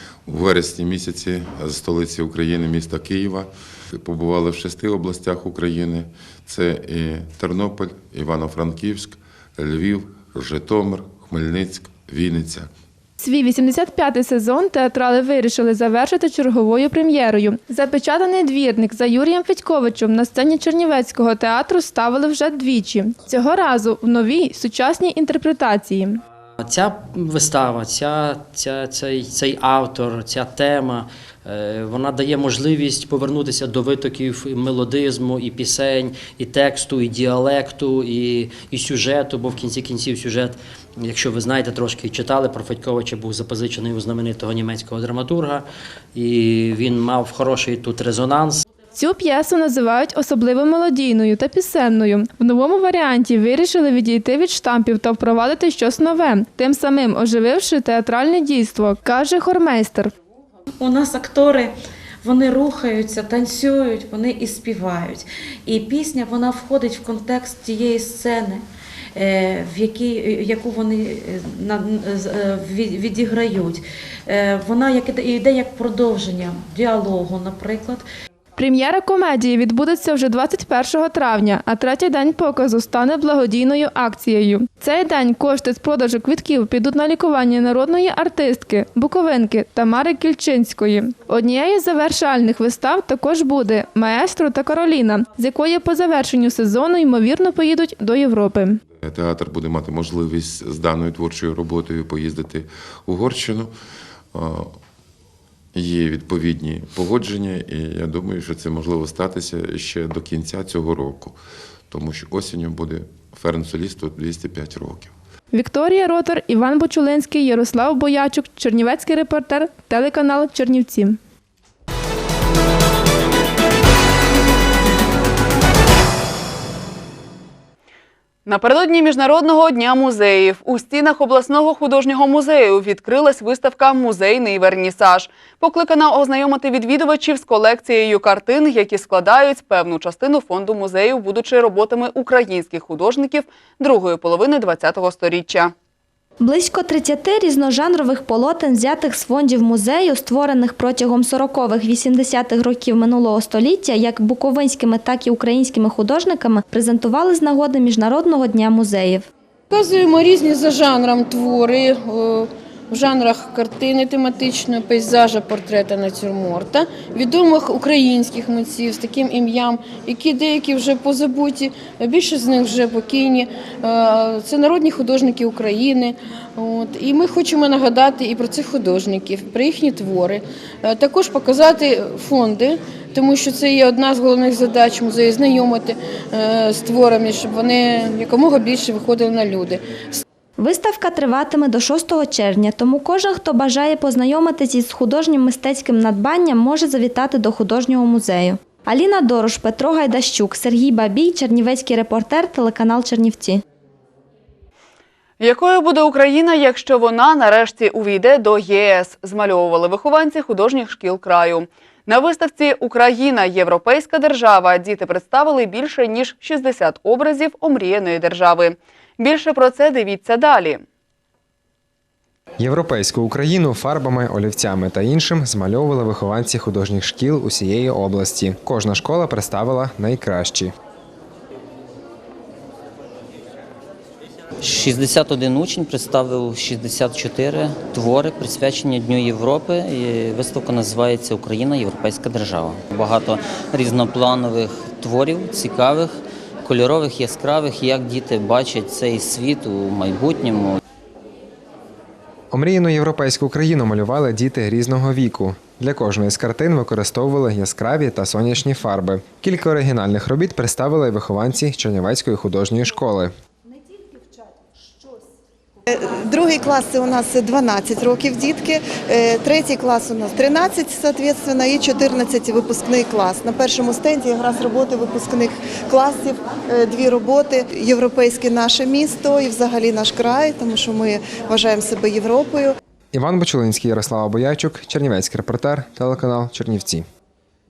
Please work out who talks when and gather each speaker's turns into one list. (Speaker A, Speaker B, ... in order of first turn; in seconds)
Speaker A: 0.2-12.7, 99.0-103.7, 104.3-104.8, 105.7-111.4, 111.9-115.1
Speaker B: 13.2-26.2, 48.9-60.1, 78.6-98.8, 115.5-121.2
Speaker C: 26.6-48.6
Speaker D: 60.8-68.6, 69.1-78.0
Speaker E: 128.4-145.7, 205.4-220.8
Speaker F: 146.4-159.3, 190.6-203.6
Speaker G: 159.7-189.8
Speaker H: 222.6-230.7, 252.5-263.3, 283.1-287.1
Speaker I: 234.6-250.8
Speaker J: 265.9-282.7